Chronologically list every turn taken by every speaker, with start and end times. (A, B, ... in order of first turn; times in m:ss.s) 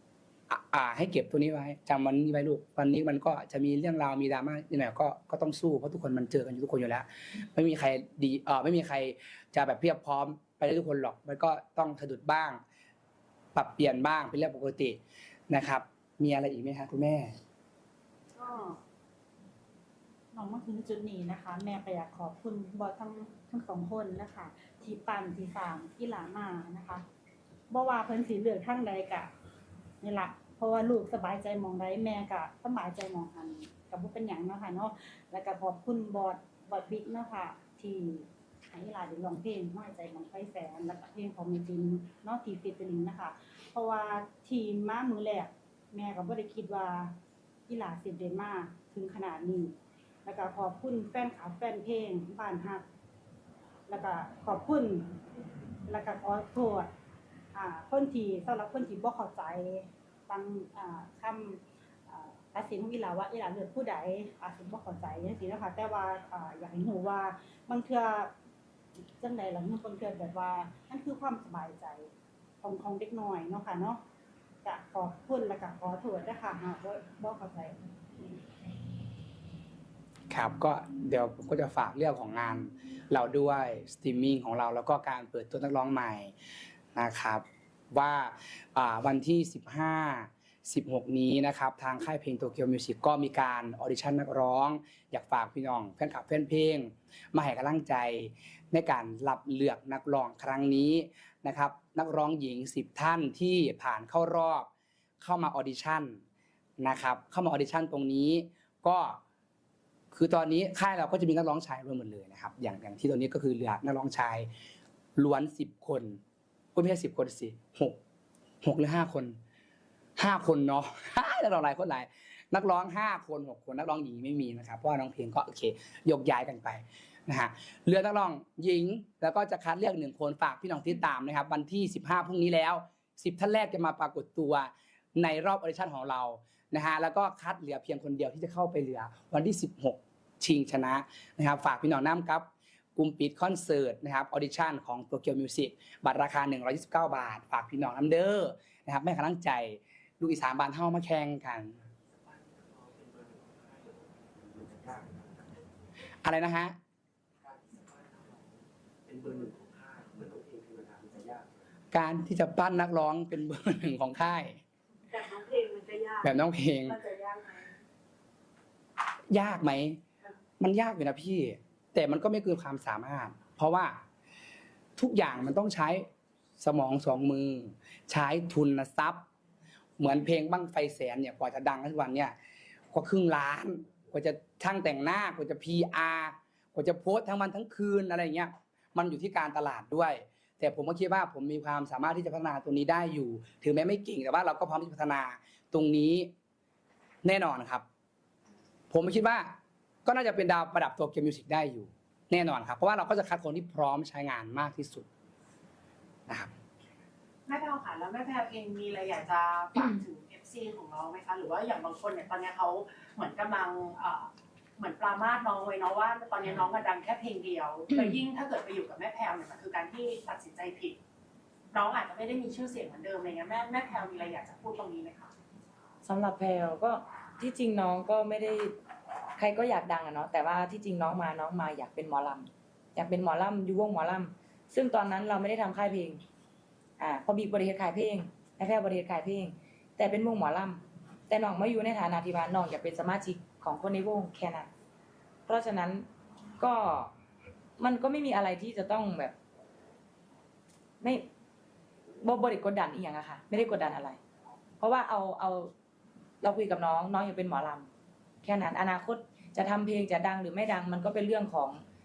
0:00.5-0:12.6 A
0:13.5-0:15.0 A
0:15.5-0:17.3 A
0:18.4-0:18.8 B
0:20.3-0:27.0 B
0:27.7-0:29.3 B
0:30.0-0:47.1 B
0:47.7-0:49.7 B
0:50.2-0:52.8 B
0:53.9-0:55.2 B
0:55.9-0:56.9 B
0:57.5-1:08.3 B
1:09.2-1:12.1 B
1:12.6-1:14.0 B
1:14.6-1:17.7 B
1:20.3-1:26.3 A
1:26.9-1:44.7 A
1:45.2-1:46.2 A
1:46.8-1:49.2 A
1:50.1-1:54.5 A
1:55.2-1:56.2 A
1:56.7-1:58.0 A
1:58.6-1:59.4 A
2:00.2-2:31.7 A
2:32.1-2:35.7 C
2:36.2-2:36.8 A
2:37.4-2:41.6 C
2:41.9-2:44.6 A
2:45.1-2:46.3 D
2:46.2-2:47.0 A
2:46.9-2:47.7 D
2:49.3-2:50.0 A
2:50.6-2:54.0 A
2:55.0-2:56.1 A
2:56.6-2:59.2 A
3:00.0-3:02.3 A
3:02.9-3:16.3 A
3:17.2-3:17.8 A
3:18.9-3:19.5 A
3:20.0-3:25.1 A
3:27.4-3:41.0 E
3:37.9-3:38.2 F
3:41.7-3:45.3 E
3:46.0-3:48.8 F
3:49.4-3:56.2 F
3:57.0-4:04.7 F
4:05.5-4:06.1 F
4:06.6-4:07.1 F
4:07.8-4:09.3 F
4:11.0-4:11.3 F
4:12.2-4:14.2 F
4:14.8-4:15.7 F
4:16.4-4:17.9 F
4:18.4-4:21.8 F